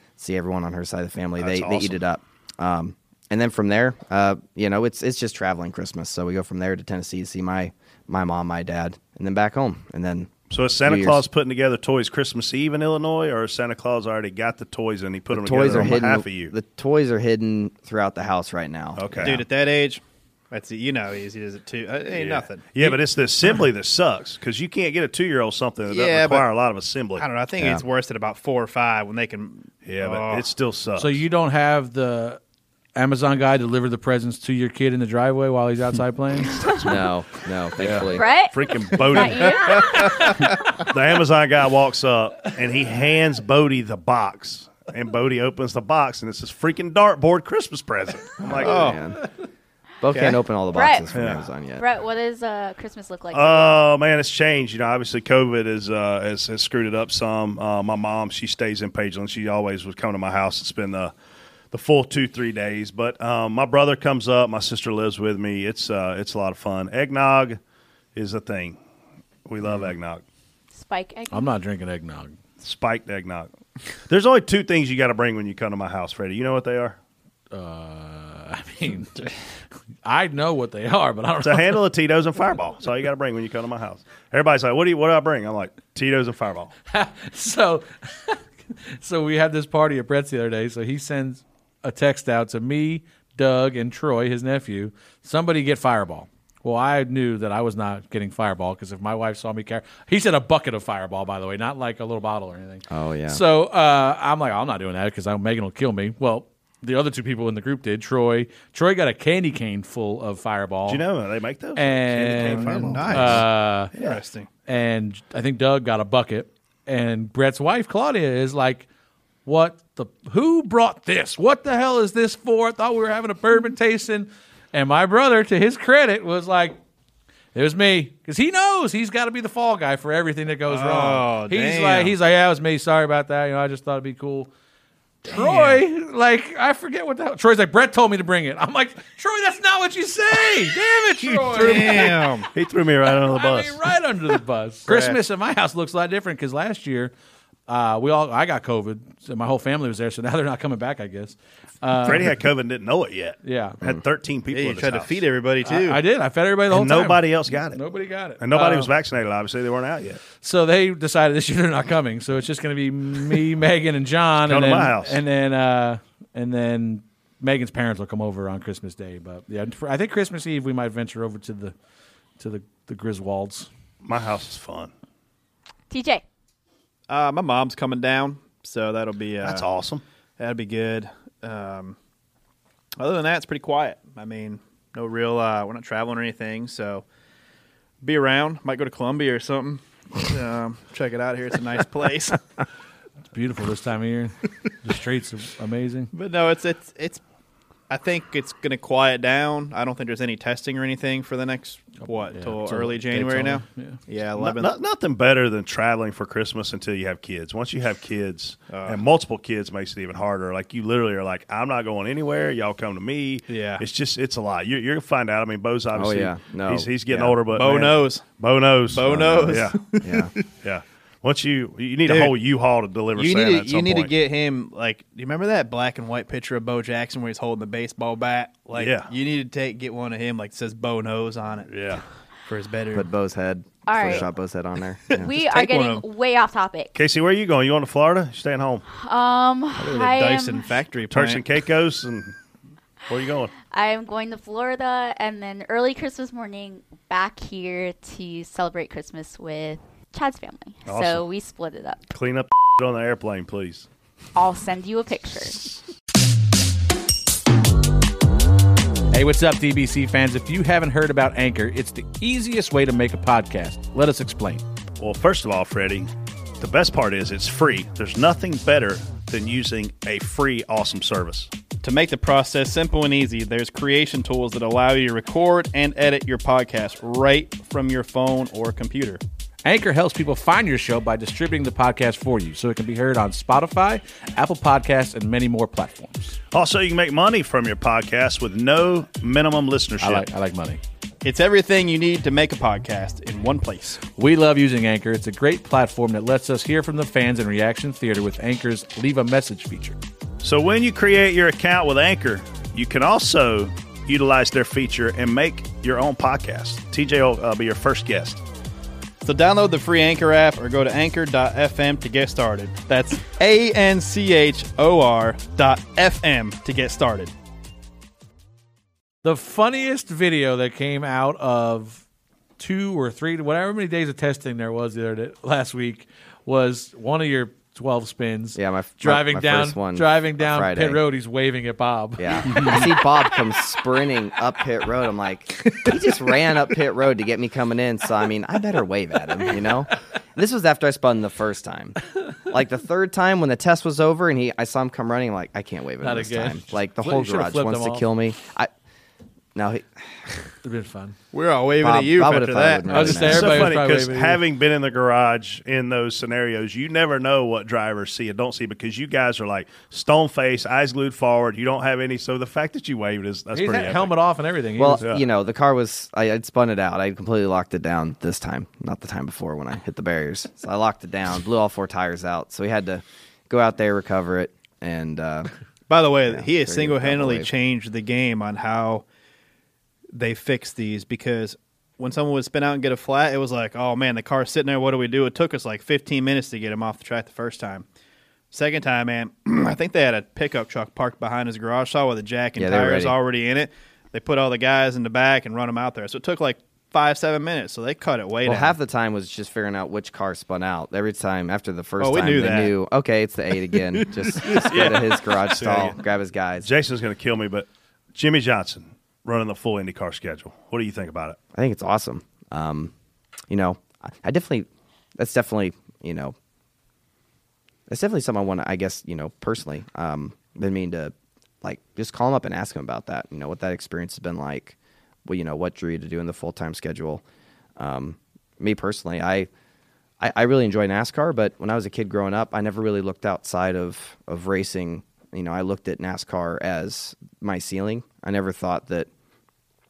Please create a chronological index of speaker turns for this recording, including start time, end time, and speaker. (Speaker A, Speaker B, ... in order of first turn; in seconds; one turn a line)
Speaker A: 0.2-10.3
Speaker B: 1.4-2.0
Speaker B: 10.5-16.5
Speaker A: 10.8-11.2
Speaker A: 15.3-19.4
Speaker B: 18.9-19.4
Speaker C: 19.2-23.0
Speaker B: 22.1-27.3
Speaker C: 25.9-26.5
Speaker C: 27.1-30.5
Speaker A: 27.6-27.8
Speaker B: 29.8-31.2
Speaker D: 31.0-32.4
Speaker D: 32.9-36.6
Speaker A: 36.8-38.3
Speaker B: 37.8-39.9
Speaker E: 38.1-40.5
Speaker C: 39.5-40.3
Speaker B: 40.8-48.9
Speaker A: 48.5-49.2
Speaker C: 48.6-49.0
Speaker A: 50.0-51.8
Speaker C: 50.1-50.4
Speaker E: 50.7-51.1
Speaker B: 51.1-51.4
Speaker E: 51.8-53.8
Speaker B: 53.3-61.1
Speaker B: 61.7-67.6
Speaker B: 68.1-68.8
Speaker B: 69.5-70.2
Speaker E: 70.7-71.5
Speaker D: 71.3-72.3
Speaker B: 72.6-73.5
Speaker B: 74.1-77.0
Speaker D: 77.5-79.3
Speaker D: 80.0-81.8
Speaker B: 81.4-86.7
Speaker D: 86.9-88.4
Speaker D: 88.9-111.0
Speaker A: 102.9-103.4
Speaker B: 110.8-113.4
Speaker D: 111.8-113.9
Speaker C: 112.4-114.5
Speaker D: 114.7-118.8
Speaker D: 119.4-126.8
Speaker D: 127.5-134.5
Speaker C: 130.7-132.1
Speaker D: 135.2-142.3
Speaker C: 135.3-135.8
Speaker C: 141.4-142.5
Speaker B: 141.6-143.8
Speaker D: 143.1-147.1
Speaker C: 144.9-145.2
Speaker D: 147.7-152.4
Speaker B: 152.0-155.2
Speaker D: 153.4-153.8
Speaker C: 154.5-156.0
Speaker D: 155.6-158.9
Speaker B: 156.7-157.8
Speaker B: 158.4-160.2
Speaker D: 160.3-171.7
Speaker B: 164.4-165.2
Speaker D: 172.4-173.7
Speaker B: 174.0-174.9
Speaker E: 175.9-176.2
Speaker C: 177.1-179.7
Speaker B: 179.4-180.0
Speaker C: 180.4-181.9
Speaker C: 183.0-187.1
Speaker C: 188.0-192.4
Speaker D: 193.3-196.1
Speaker C: 196.1-197.2
Speaker C: 197.9-204.7
Speaker D: 202.0-204.0
Speaker B: 204.4-219.8
Speaker C: 208.7-209.0
Speaker C: 213.5-213.8
Speaker A: 215.9-217.4
Speaker C: 217.5-218.2
Speaker C: 218.9-220.3
Speaker A: 219.0-220.3
Speaker B: 220.6-224.1
Speaker C: 222.1-222.3
Speaker C: 223.1-231.7
Speaker B: 228.7-229.1
Speaker B: 231.7-232.0
Speaker C: 232.4-233.1
Speaker A: 232.9-235.3
Speaker E: 233.8-234.3
Speaker C: 235.1-236.0
Speaker E: 235.1-236.9
Speaker B: 236.9-238.8
Speaker E: 239.0-240.7
Speaker C: 239.8-241.4
Speaker B: 241.1-242.3
Speaker B: 243.1-243.5
Speaker E: 243.7-252.0
Speaker B: 250.8-251.2
Speaker B: 252.1-253.8
Speaker E: 254.3-255.7
Speaker D: 259.1-264.6
Speaker B: 265.0-271.5
Speaker C: 271.8-279.2
Speaker D: 279.6-286.4
Speaker B: 286.5-290.3
Speaker D: 290.0-290.8
Speaker C: 291.2-294.0
Speaker D: 294.1-300.0
Speaker B: 300.4-308.4
Speaker C: 309.2-317.3
Speaker D: 319.2-322.0
Speaker D: 322.6-332.7
Speaker A: 328.6-331.0
Speaker A: 332.2-348.7
Speaker D: 346.0-348.1
Speaker A: 349.6-350.4
Speaker D: 350.6-351.1
Speaker C: 351.3-353.2
Speaker A: 351.8-353.7
Speaker D: 352.9-354.4
Speaker B: 353.2-364.1
Speaker D: 363.5-365.1
Speaker A: 364.8-375.5
Speaker C: 375.9-379.1
Speaker A: 376.3-377.5
Speaker C: 380.1-387.9
Speaker C: 388.5-398.7
Speaker A: 392.6-393.1
Speaker A: 398.4-406.7
Speaker C: 402.0-402.7
Speaker C: 404.0-405.0
Speaker B: 404.4-406.0
Speaker B: 406.6-411.4
Speaker A: 411.5-412.9
Speaker A: 413.5-416.3
Speaker A: 417.9-427.2
Speaker A: 427.8-429.5
Speaker A: 430.2-439.1